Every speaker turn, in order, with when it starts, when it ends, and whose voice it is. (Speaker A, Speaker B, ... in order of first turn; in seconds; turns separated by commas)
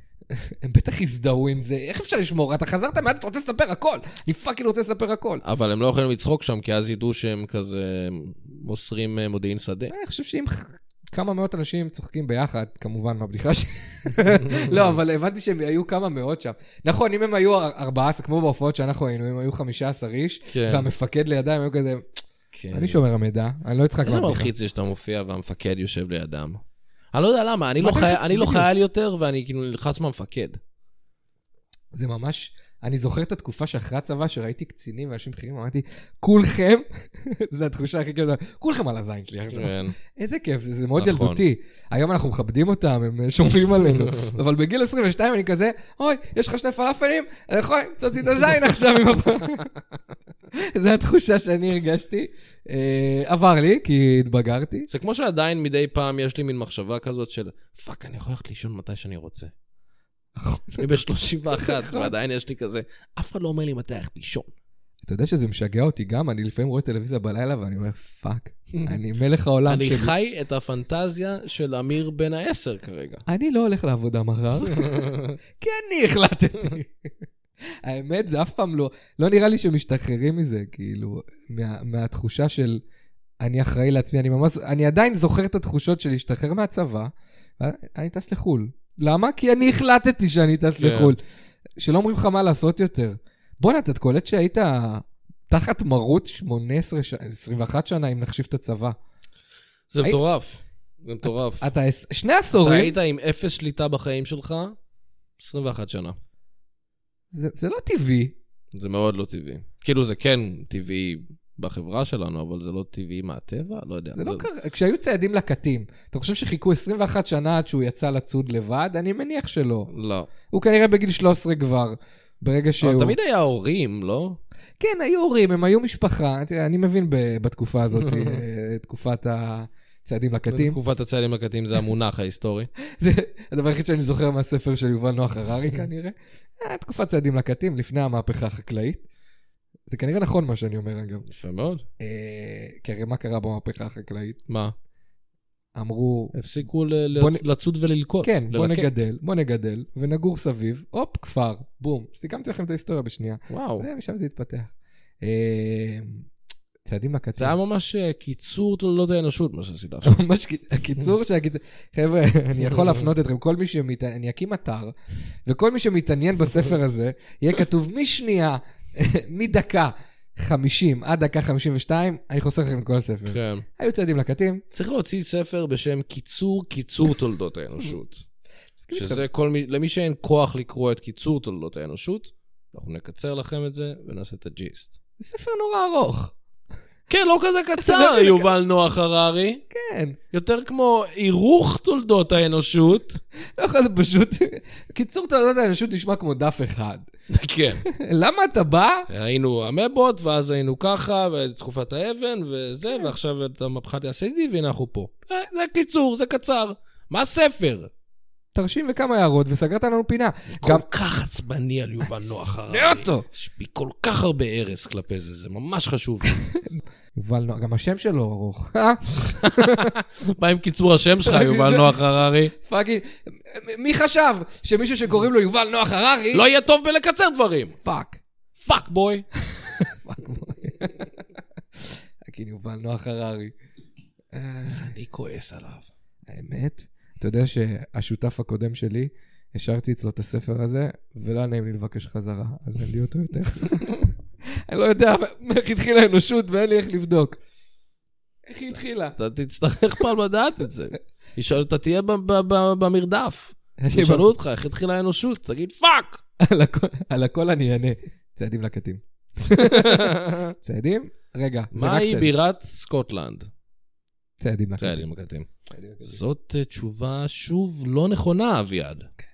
Speaker A: 0.3-5.4, Speaker B: 5.4-9.9, Speaker A: 9.9-22.1, Speaker B: 20.5-20.9, Speaker B: 22.5-23.0, Speaker A: 22.7-24.5, Speaker B: 24.0-26.6, Speaker B: 27.1-30.6, Speaker A: 27.8-28.7, Speaker A: 31.9-49.7, Speaker B: 39.5-40.0, Speaker B: 41.0-41.4, Speaker A: 50.5-54.9, Speaker B: 54.9-59.5, Speaker A: 60.4-60.9, Speaker B: 60.8-64.5, Speaker A: 61.5-62.1, Speaker A: 65.0-70.1, Speaker B: 69.7-73.2, Speaker A: 73.3-77.2, Speaker B: 74.7-75.3, Speaker A: 77.8-82.8, Speaker A: 83.4-91.2, Speaker B: 90.8-91.1, Speaker A: 91.8-99.0, Speaker B: 99.9-101.7, Speaker A: 101.2-103.0, Speaker B: 102.5-104.8, Speaker B: 105.4-106.2, Speaker A: 107.3-108.4, Speaker B: 108.7-114.5, Speaker A: 114.1-119.9, Speaker B: 119.9-120.3, Speaker A: 120.5-123.2, Speaker B: 122.8-124.4, Speaker A: 124.8-130.8, Speaker B: 130.5-132.7, Speaker A: 132.8-139.0, Speaker A: 139.9-141.2, Speaker B: 141.3-141.8, Speaker A: 142.0-144.4, Speaker B: 144.5-144.8, Speaker A: 145.8-146.3, Speaker B: 146.3-149.0, Speaker A: 147.2-147.4, Speaker A: 148.2-156.3, Speaker B: 153.5-153.9, Speaker A: 156.8-157.6, Speaker B: 157.4-160.2, Speaker A: 160.1-174.6, Speaker B: 173.3-173.7, Speaker B: 174.7-178.2, Speaker A: 178.8-179.2, Speaker B: 178.9-184.9, Speaker A: 185.2-186.3, Speaker B: 187.1-189.6, Speaker A: 187.8-188.5, Speaker A: 189.7-190.2, Speaker B: 190.3-193.2, Speaker A: 193.4-197.1, Speaker B: 197.3-197.8, Speaker A: 197.8-199.1, Speaker B: 199.1-207.9, Speaker A: 208.5-210.8, Speaker B: 210.6-216.4, Speaker A: 212.7-213.2, Speaker A: 216.6-219.9, Speaker B: 219.2-222.5, Speaker A: 221.2-222.0, Speaker A: 222.5-226.4, Speaker B: 226.3-227.8, Speaker A: 227.8-228.2, Speaker B: 228.6-229.3, Speaker A: 229.5-231.1, Speaker A: 231.8-233.5, Speaker A: 234.3-235.0, Speaker B: 234.7-235.9, Speaker A: 236.3-244.1, Speaker A: 244.7-247.4, Speaker A: 248.4-249.2, Speaker B: 249.1-256.2, Speaker A: 253.8-254.3, Speaker A: 256.4-262.3, Speaker B: 259.6-260.6, Speaker B: 261.7-263.5, Speaker A: 264.4-265.1, Speaker B: 264.8-265.5, Speaker A: 265.7-266.2, Speaker B: 266.0-269.1